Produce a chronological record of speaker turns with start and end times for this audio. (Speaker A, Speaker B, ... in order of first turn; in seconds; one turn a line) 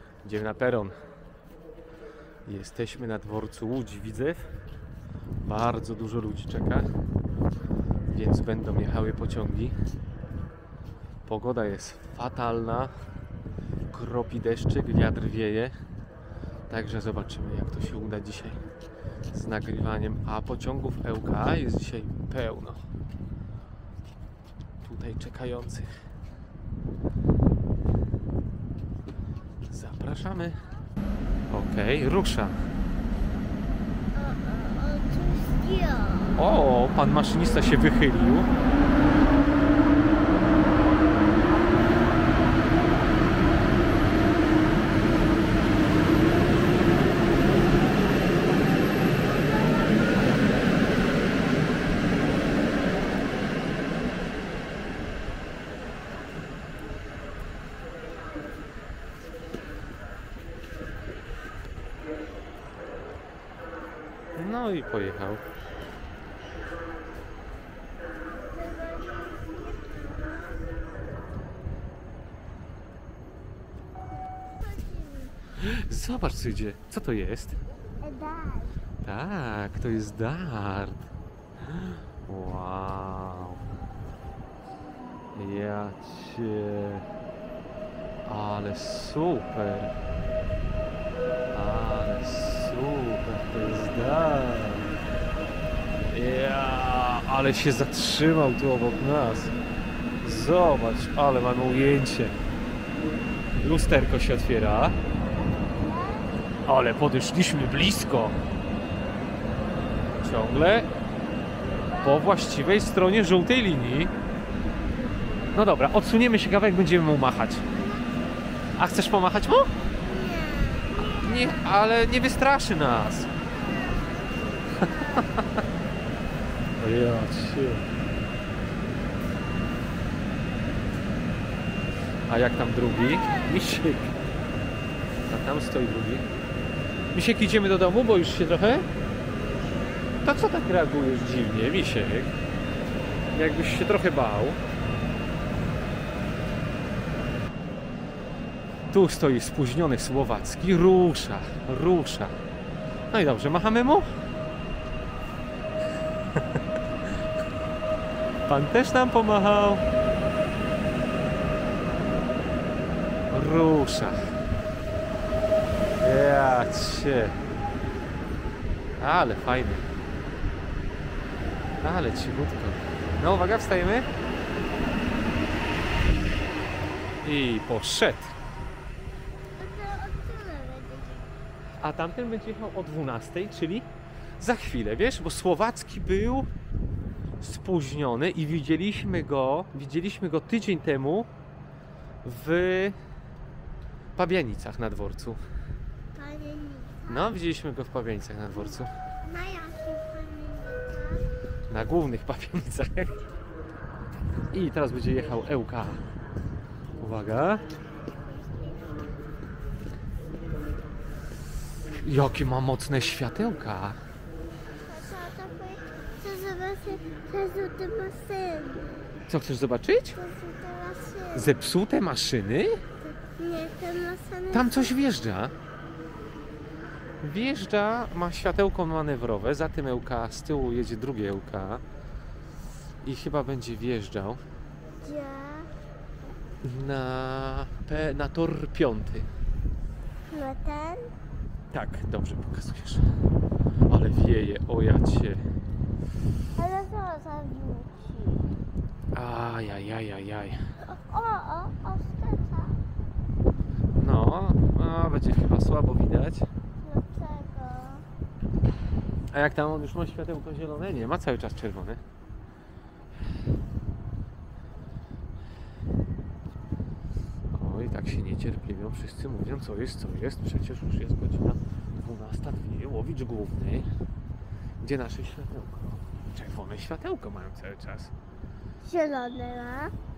Speaker A: 0.2-1.0
Speaker A: 2.5-4.5
Speaker A: 5.4-6.9
Speaker A: 8.1-9.7
Speaker A: 11.3-12.9
Speaker A: 13.9-15.8
Speaker A: 16.7-18.6
Speaker A: 19.3-22.8
Speaker A: 24.8-25.9
Speaker A: 29.7-30.6
Speaker A: 31.5-32.6
Speaker B: 34.1-36.6
Speaker A: 36.4-38.5
Speaker A: 64.4-65.4
Speaker B: 68.3-70.7
Speaker B: 74.2-75.3
Speaker A: 75.6-77.6
Speaker B: 78.0-78.8
Speaker A: 79.0-81.0
Speaker A: 81.7-83.6
Speaker A: 85.3-87.0
Speaker A: 88.2-89.9
Speaker A: 91.5-94.9
Speaker A: 96.1-99.5
Speaker A: 100.2-102.4
Speaker A: 103.6-105.0
Speaker B: 105.7-106.3
Speaker A: 106.7-108.4
Speaker A: 110.2-110.9
Speaker B: 111.7-112.5
Speaker A: 112.0-114.1
Speaker A: 115.5-117.7
Speaker B: 117.7-118.4
Speaker A: 118.8-119.7
Speaker B: 120.0-121.8
Speaker A: 121.2-123.3
Speaker B: 123.5-125.5
Speaker A: 124.8-125.4
Speaker A: 126.8-127.8
Speaker A: 132.3-134.2
Speaker A: 135.3-136.3
Speaker A: 137.1-138.9
Speaker A: 140.2-142.3
Speaker A: 143.3-144.6
Speaker A: 148.9-152.3
Speaker A: 153.1-154.1
Speaker A: 158.5-159.8
Speaker A: 163.3-164.2
Speaker A: 166.0-167.3
Speaker A: 169.0-169.9
Speaker A: 171.8-174.1
Speaker A: 177.2-178.3
Speaker B: 179.6-181.4
Speaker A: 181.8-186.5
Speaker A: 187.4-191.3
Speaker A: 192.2-193.0
Speaker A: 194.2-195.4
Speaker B: 196.2-197.4
Speaker A: 197.1-198.9
Speaker B: 198.5-201.3
Speaker A: 201.7-203.2
Speaker A: 204.5-206.0
Speaker A: 207.0-207.7
Speaker B: 208.1-209.0
Speaker A: 212.0-214.0
Speaker B: 214.9-219.2
Speaker A: 219.3-220.2
Speaker B: 220.2-221.6
Speaker A: 221.3-222.8
Speaker B: 223.0-225.0
Speaker A: 224.5-225.5
Speaker A: 227.2-231.8
Speaker A: 233.0-234.4
Speaker B: 235.0-235.7
Speaker A: 236.6-239.3
Speaker B: 240.3-241.1
Speaker A: 241.7-243.0
Speaker A: 243.9-245.4
Speaker B: 246.6-248.5
Speaker A: 249.1-250.6
Speaker B: 250.8-252.8
Speaker A: 253.9-256.5
Speaker B: 256.8-258.1
Speaker A: 259.3-262.0
Speaker A: 267.5-273.9
Speaker A: 274.8-278.1
Speaker B: 278.8-279.9